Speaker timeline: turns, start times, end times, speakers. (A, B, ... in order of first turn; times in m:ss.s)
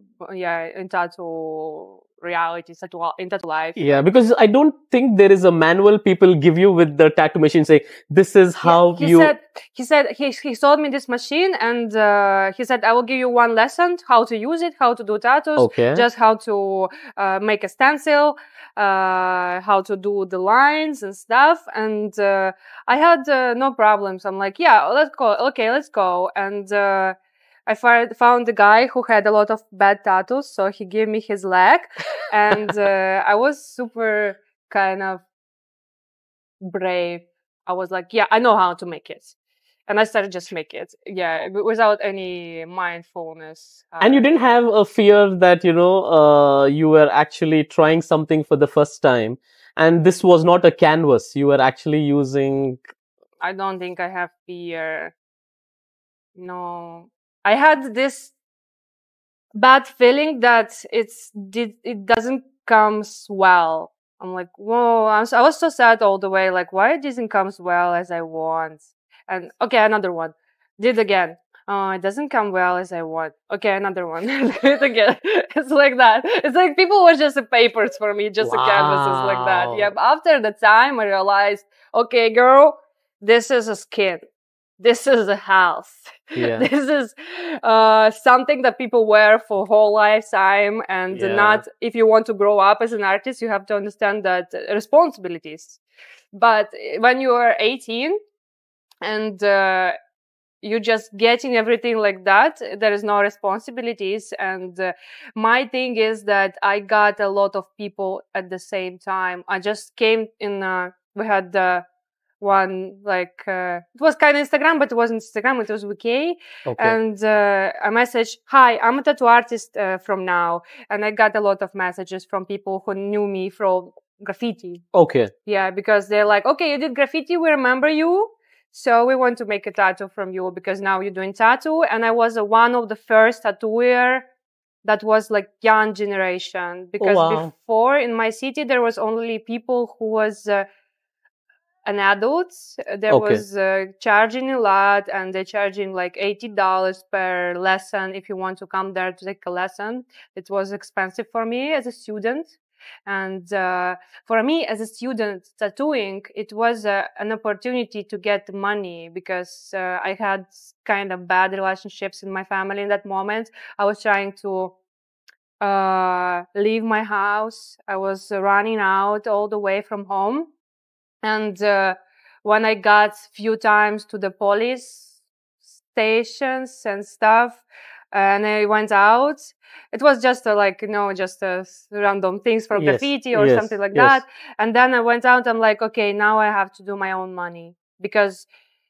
0:00.2-0:04.1 A
0:03.8-0:09.3 B
0:08.6-0:27.2 A
0:15.6-0:16.0 B
0:27.7-0:35.2 A
0:36.6-0:39.4 A
0:39.9-0:44.3 A
0:44.0-0:52.8 B
0:53.4-0:55.2 A
0:56.4-0:58.3 A
0:59.6-1:24.2 A
1:18.4-1:19.9 B
1:24.8-1:35.8 A
1:26.4-1:26.7 B
1:31.1-1:31.6 B
1:36.3-1:38.2 A
1:39.0-1:40.0 A
1:40.6-1:51.8 A
1:52.4-2:04.8 A
1:56.7-1:57.0 B
2:04.9-2:05.3 B
2:05.4-2:14.3 A
2:14.8-2:20.7 A
2:17.0-2:17.5 B
2:21.8-2:44.8 A
2:23.1-2:23.4 B
2:45.6-2:50.5 A
2:51.2-2:55.1 A
2:55.9-3:08.5 A
3:02.8-3:04.2 B